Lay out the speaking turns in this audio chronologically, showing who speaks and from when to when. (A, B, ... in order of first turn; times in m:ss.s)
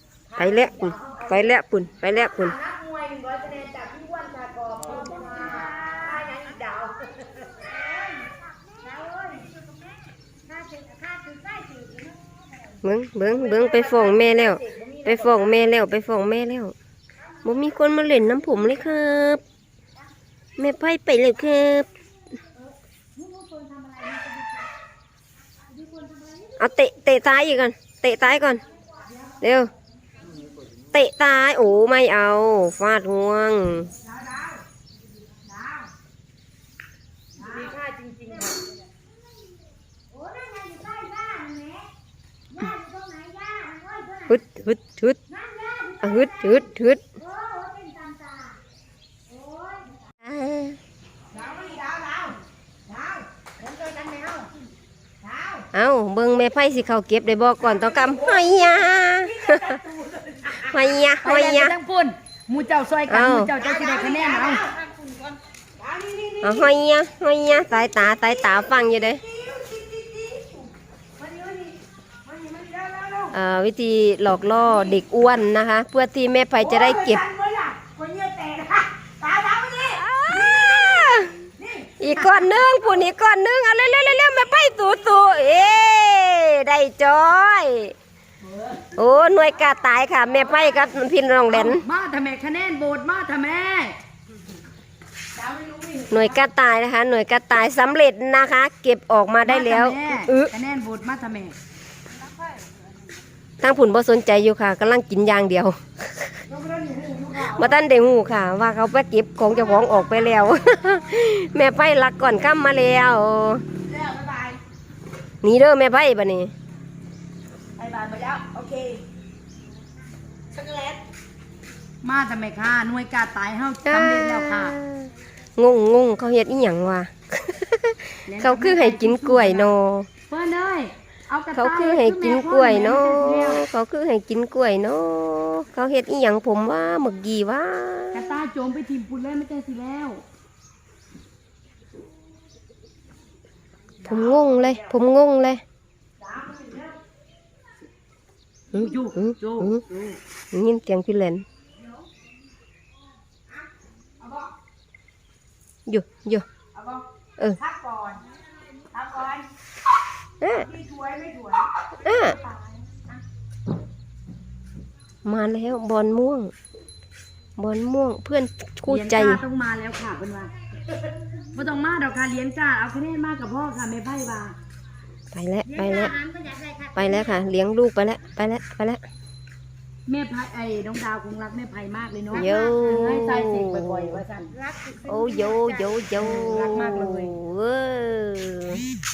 0:00.3-0:01.5 A
0:00.4-0:02.6 B
0:02.1-0:07.2 A
0:05.0-0:06.3 C
0:07.5-0:12.8 C
0:12.8-0:16.7 B
0:13.3-0:15.5 A
0:17.4-0:19.4 B
0:20.6-0:21.9 B
0:23.2-0:24.6 C
0:25.7-0:26.6 C
0:26.6-0:28.6 B
0:29.4-0:29.7 B
0:30.9-0:33.9 B
0:34.0-0:34.6 A
0:35.5-0:35.9 A
0:37.4-0:38.6 A
0:37.4-0:37.8 C
0:38.3-0:38.6 C
0:40.1-0:41.9 C
0:42.5-0:44.4 C
0:44.3-0:45.2 B
0:45.3-0:48.6 C
0:46.0-0:47.0 B
0:49.3-0:50.1 C
0:50.2-0:50.8 B
0:51.3-0:51.8 C
0:51.4-0:52.4 A
0:52.9-0:54.2 A
0:53.8-0:54.4 C
0:55.2-0:55.6 A
0:55.7-0:59.8 B
0:57.6-1:00.7 A
1:00.5-1:01.8 B
1:01.2-1:04.7 A
1:03.1-1:03.5 B
1:03.6-1:05.2 C
1:05.8-1:06.7 A
1:06.4-1:09.2 B
1:09.2-1:10.6 A
1:11.2-1:13.3 A
1:13.3-1:17.2 B
1:16.6-1:22.8 A
1:19.9-1:21.3 B
1:22.0-1:28.0 B
1:28.4-1:28.9 A
1:28.9-1:31.8 B
1:30.2-1:30.9 A
1:31.5-1:34.0 A
1:35.4-1:36.5 A
1:36.1-1:40.5 B
1:39.4-1:41.6 A
1:43.6-1:46.3 B
1:46.5-1:47.8 A
1:47.4-1:53.6 B
1:53.9-1:54.6 A
1:55.4-1:56.5 B
1:57.8-1:59.0 A
2:00.5-2:01.0 A
2:02.0-2:04.8 A
2:03.9-2:10.1 B
2:08.3-2:09.7 A
2:10.3-2:13.6 A
2:11.5-2:18.3 B
2:18.1-2:20.2 A
2:24.0-2:24.9 A
2:24.0-2:25.6 B
2:26.2-2:27.0 A
2:28.7-2:30.2 A
2:28.8-2:29.8 B
2:30.5-2:31.4 B
2:34.2-2:34.5 A
2:35.9-2:36.5 B
2:36.8-2:37.0 A
2:37.6-2:38.2 A
2:38.9-2:39.5 A
2:40.4-2:40.7 B
2:40.6-2:42.5 A
2:42.0-2:42.4 B
2:45.2-2:46.5 B
2:47.6-2:49.4 B
2:48.9-2:50.5 A
2:51.5-2:54.6 A
2:55.3-2:56.2 B
2:55.7-2:57.4 C
2:57.0-2:59.0 B
3:00.1-3:04.5 A
3:02.3-3:04.2 B
3:04.5-3:06.0 C
3:05.1-3:08.8 B
3:06.0-3:07.3 A